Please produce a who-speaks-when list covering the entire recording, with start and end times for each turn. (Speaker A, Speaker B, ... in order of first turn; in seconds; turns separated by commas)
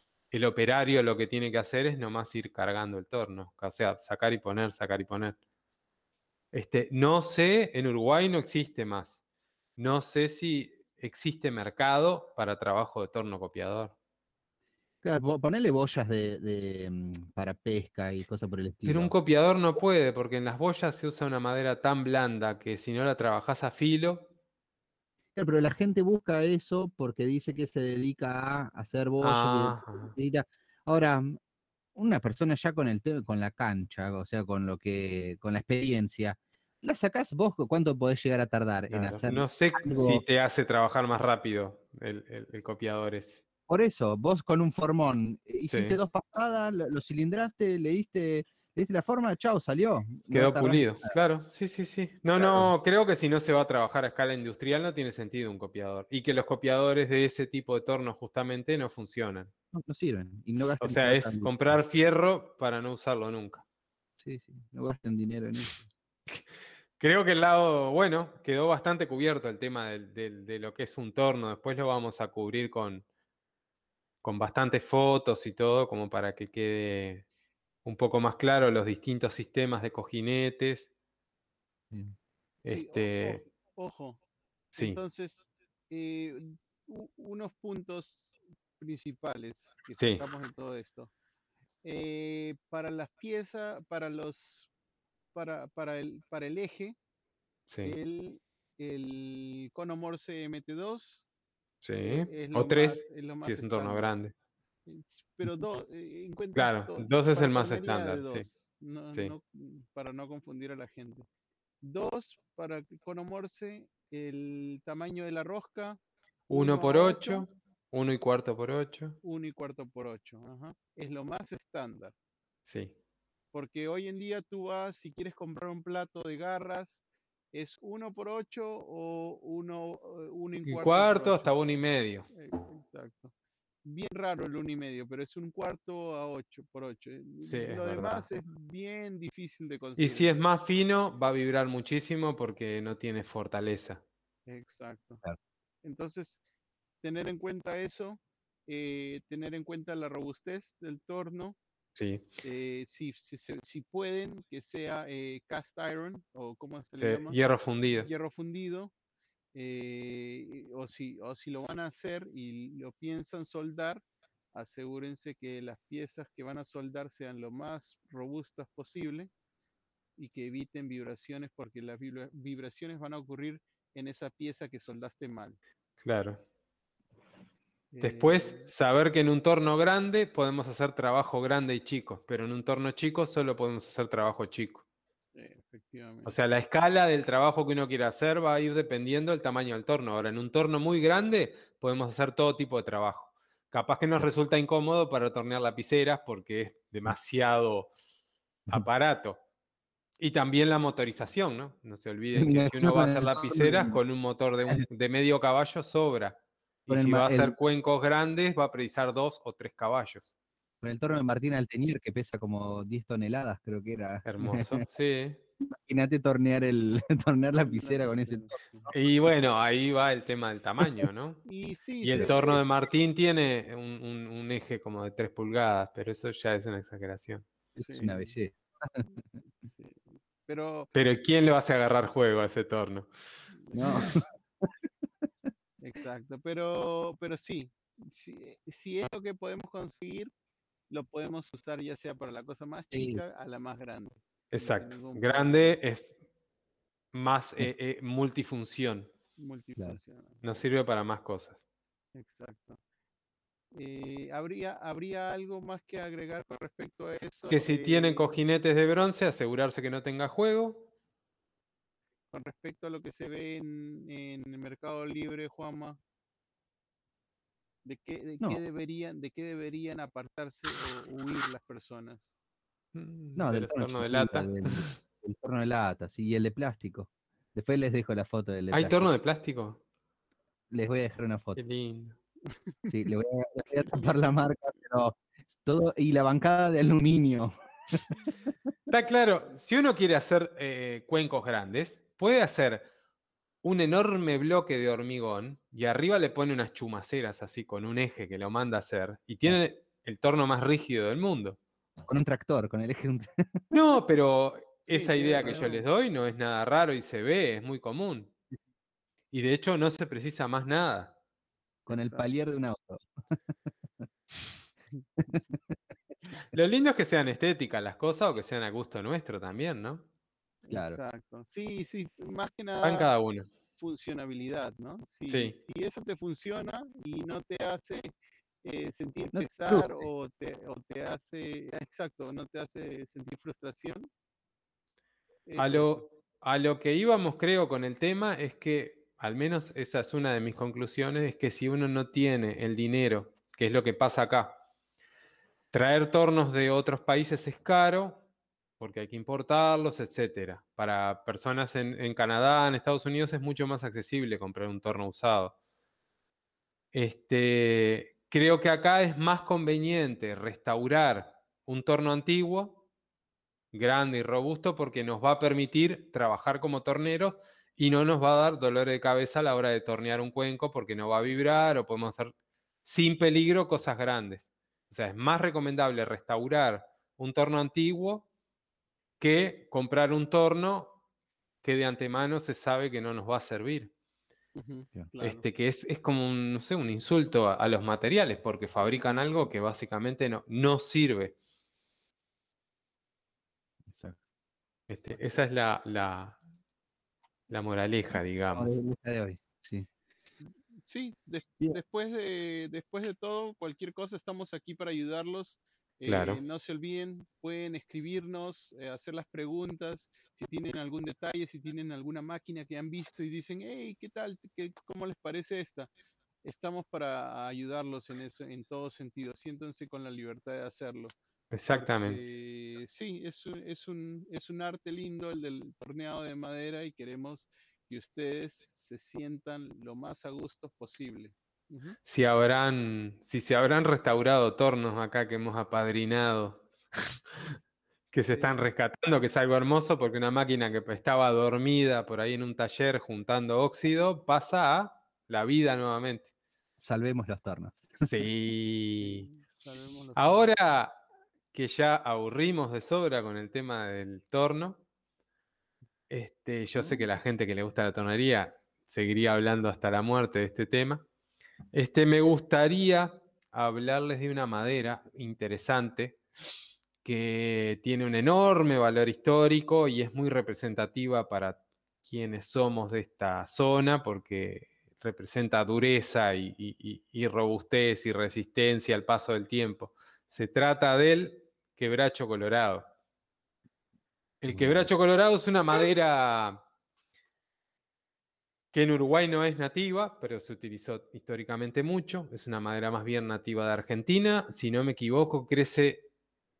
Speaker A: 0.3-5.4, Speaker A: 6.5-9.2, Speaker A: 9.8-13.9, Speaker B: 15.0-19.1, Speaker A: 18.9-24.3, Speaker B: 25.4-31.4, Speaker A: 29.2-30.1, Speaker B: 31.9-40.2, Speaker A: 38.9-43.4, Speaker B: 43.7-51.1, Speaker A: 45.7-46.0, Speaker A: 50.3-59.5, Speaker B: 52.4-52.7, Speaker B: 59.7-61.8, Speaker A: 60.8-63.6, Speaker B: 64.2-65.8, Speaker A: 67.0-73.0, Speaker A: 74.2-77.2, Speaker A: 77.8-80.9, Speaker C: 82.6-84.2, Speaker A: 82.6-83.4, Speaker A: 84.7-85.0, Speaker C: 84.8-91.1, Speaker A: 90.0-90.2, Speaker C: 91.8-94.7, Speaker C: 95.3-97.0, Speaker A: 97.7-97.9, Speaker C: 97.8-101.2, Speaker A: 101.8-104.3, Speaker C: 102.0-104.1, Speaker C: 104.8-111.2, Speaker A: 106.5-108.5, Speaker C: 111.8-117.5, Speaker A: 116.5-119.2, Speaker C: 119.2-122.1, Speaker A: 122.7-122.9, Speaker C: 123.5-127.0, Speaker C: 127.5-131.5, Speaker A: 130.7-132.3, Speaker C: 132.3-133.3, Speaker C: 133.8-140.3, Speaker A: 137.4-138.3, Speaker A: 140.0-144.0, Speaker C: 144.5-145.2, Speaker C: 145.8-146.4, Speaker C: 147.0-151.6, Speaker A: 151.9-152.2, Speaker C: 152.4-158.9, Speaker A: 157.0-158.1, Speaker C: 159.5-164.0, Speaker C: 164.5-169.3, Speaker C: 170.2-175.6, Speaker A: 176.0-176.4, Speaker C: 177.9-178.7, Speaker A: 178.0-184.8, Speaker C: 185.3-186.3, Speaker A: 186.2-197.9, Speaker A: 198.7-199.4, Speaker A: 200.2-210.3, Speaker B: 202.3-204.0, Speaker B: 206.9-207.6, Speaker B: 210.8-214.8, Speaker A: 214.2-215.4, Speaker B: 215.7-218.6, Speaker C: 217.6-218.9, Speaker A: 218.9-221.4, Speaker C: 221.4-222.6, Speaker A: 222.0-227.4, Speaker B: 227.8-229.1, Speaker C: 227.8-228.3, Speaker C: 229.1-230.9, Speaker A: 230.9-233.1, Speaker C: 233.5-234.0, Speaker B: 233.7-234.7, Speaker C: 235.8-240.3, Speaker C: 240.9-245.8, Speaker B: 242.9-243.2, Speaker A: 244.5-246.2, Speaker A: 247.1-249.1, Speaker C: 249.4-250.4, Speaker A: 250.4-251.6, Speaker C: 252.1-252.8, Speaker C: 253.7-258.3, Speaker A: 257.5-260.9, Speaker C: 262.3-266.0, Speaker C: 267.8-272.3, Speaker A: 272.9-274.9, Speaker B: 273.4-279.1, Speaker A: 278.7-279.8, Speaker B: 280.7-281.6, Speaker A: 281.6-282.2, Speaker C: 282.5-282.9, Speaker B: 282.9-288.1, Speaker C: 283.8-284.2, Speaker A: 288.9-292.9, Speaker A: 293.6-301.6, Speaker B: 302.1-303.7, Speaker A: 303.7-308.3, Speaker C: 304.8-305.8, Speaker A: 309.3-311.1, Speaker B: 311.9-313.1, Speaker C: 311.9-312.3, Speaker B: 315.3-315.6, Speaker A: 316.5-320.0, Speaker C: 320.6-323.1, Speaker B: 320.7-321.0, Speaker A: 322.8-323.5, Speaker C: 323.8-334.1, Speaker A: 325.3-325.6, Speaker B: 329.3-330.0, Speaker C: 335.5-336.0, Speaker A: 335.6-344.6, Speaker A: 345.7-348.2, Speaker A: 348.8-355.5, Speaker A: 356.9-362.8, Speaker A: 363.7-372.3, Speaker A: 372.8-378.3, Speaker A: 379.2-381.0, Speaker A: 381.6-383.9, Speaker C: 384.5-385.4, Speaker A: 385.2-391.3, Speaker B: 393.9-394.2, Speaker A: 394.9-396.4, Speaker A: 397.5-398.7, Speaker B: 398.5-399.9, Speaker C: 400.4-415.9, Speaker A: 406.1-406.4, Speaker C: 416.4-421.1, Speaker A: 421.5-422.2, Speaker C: 421.7-432.0, Speaker A: 432.1-437.5, Speaker A: 438.1-446.3, Speaker B: 446.8-448.1, Speaker A: 448.0-449.3, Speaker C: 449.0-450.6, Speaker A: 450.1-451.0, Speaker A: 451.5-454.8, Speaker A: 456.1-461.0, Speaker C: 456.8-457.1, Speaker A: 461.7-466.2, Speaker A: 467.0-482.8, Speaker A: 484.4-486.6, Speaker B: 484.5-484.9, Speaker A: 488.7-496.1